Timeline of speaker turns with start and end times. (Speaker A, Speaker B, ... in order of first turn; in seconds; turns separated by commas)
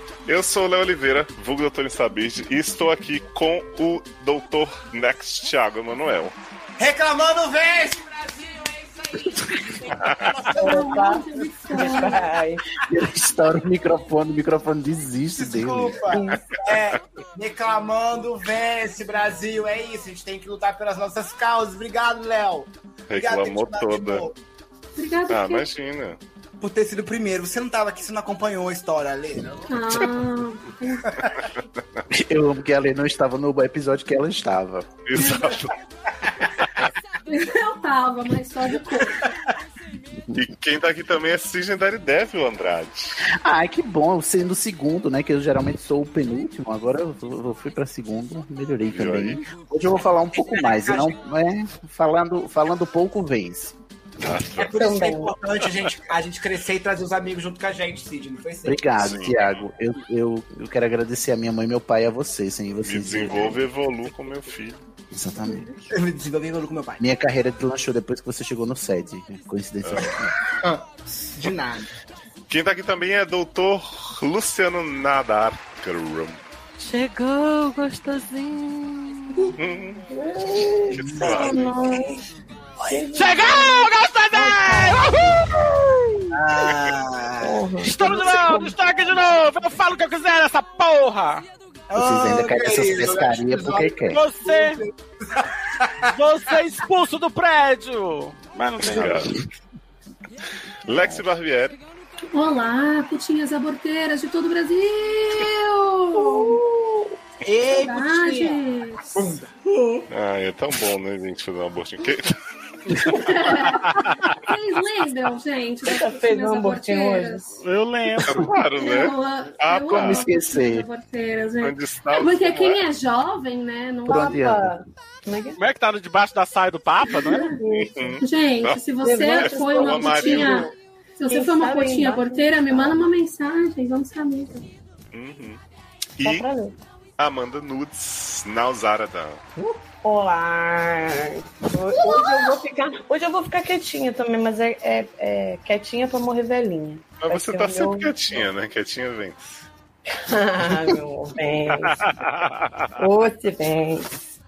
Speaker A: 0.2-6.3, Speaker B: 6.8-8.6, Speaker A: 10.0-10.3, Speaker B: 10.0-11.0, Speaker C: 10.5-12.3, Speaker D: 10.6-12.6, Speaker E: 12.9-16.1, Speaker B: 15.3-24.3, Speaker D: 16.1-16.5, Speaker A: 23.1-24.3, Speaker C: 24.9-25.6, Speaker A: 25.3-26.2, Speaker B: 26.6-29.6, Speaker C: 29.7-31.3, Speaker E: 32.1-35.0, Speaker A: 35.0-35.7, Speaker C: 35.1-35.7, Speaker C: 37.3-39.3, Speaker A: 40.3-43.2, Speaker E: 43.3-53.7, Speaker A: 48.9-49.5, Speaker B: 50.4-51.1, Speaker A: 54.2-54.7, Speaker B: 54.5-58.8, Speaker D: 54.7-55.3, Speaker E: 58.6-63.6, Speaker A: 59.0-59.6, Speaker A: 62.8-64.8, Speaker E: 65.1-65.7, Speaker B: 65.9-67.0, Speaker E: 67.0-70.3, Speaker B: 70.5-71.9, Speaker A: 72.5-76.4, Speaker F: 76.8-79.2, Speaker A: 79.6-80.0, Speaker D: 80.1-82.2, Speaker A: 80.9-81.8, Speaker D: 82.8-85.4, Speaker G: 83.1-85.3, Speaker F: 83.2-85.1, Speaker B: 86.3-87.6, Speaker D: 87.4-88.7, Speaker G: 87.8-91.5, Speaker B: 91.9-96.1, Speaker E: 91.9-94.2, Speaker G: 94.1-94.8, Speaker G: 96.1-99.3, Speaker A: 98.8-99.3, Speaker A: 100.9-101.8, Speaker C: 102.3-106.6, Speaker D: 106.2-107.2, Speaker B: 107.4-108.6, Speaker C: 107.6-109.1, Speaker B: 109.1-110.1, Speaker A: 110.1-112.4, Speaker C: 113.0-117.6, Speaker D: 115.8-117.4, Speaker G: 117.6-118.5, Speaker A: 118.2-120.3, Speaker C: 118.8-124.4, Speaker E: 119.9-120.9, Speaker A: 121.6-122.8, Speaker E: 124.1-124.8, Speaker D: 124.1-125.6, Speaker G: 125.6-127.5, Speaker C: 127.2-127.6, Speaker D: 127.4-128.2, Speaker A: 127.7-128.8, Speaker C: 128.2-134.7, Speaker D: 129.0-130.7, Speaker A: 129.3-130.7, Speaker D: 131.3-133.1, Speaker A: 135.1-135.6, Speaker A: 136.2-136.5, Speaker D: 136.2-136.8, Speaker A: 137.2-139.4, Speaker D: 139.6-148.4, Speaker A: 147.2-149.7, Speaker D: 150.1-152.2, Speaker G: 152.0-152.5, Speaker D: 152.9-154.1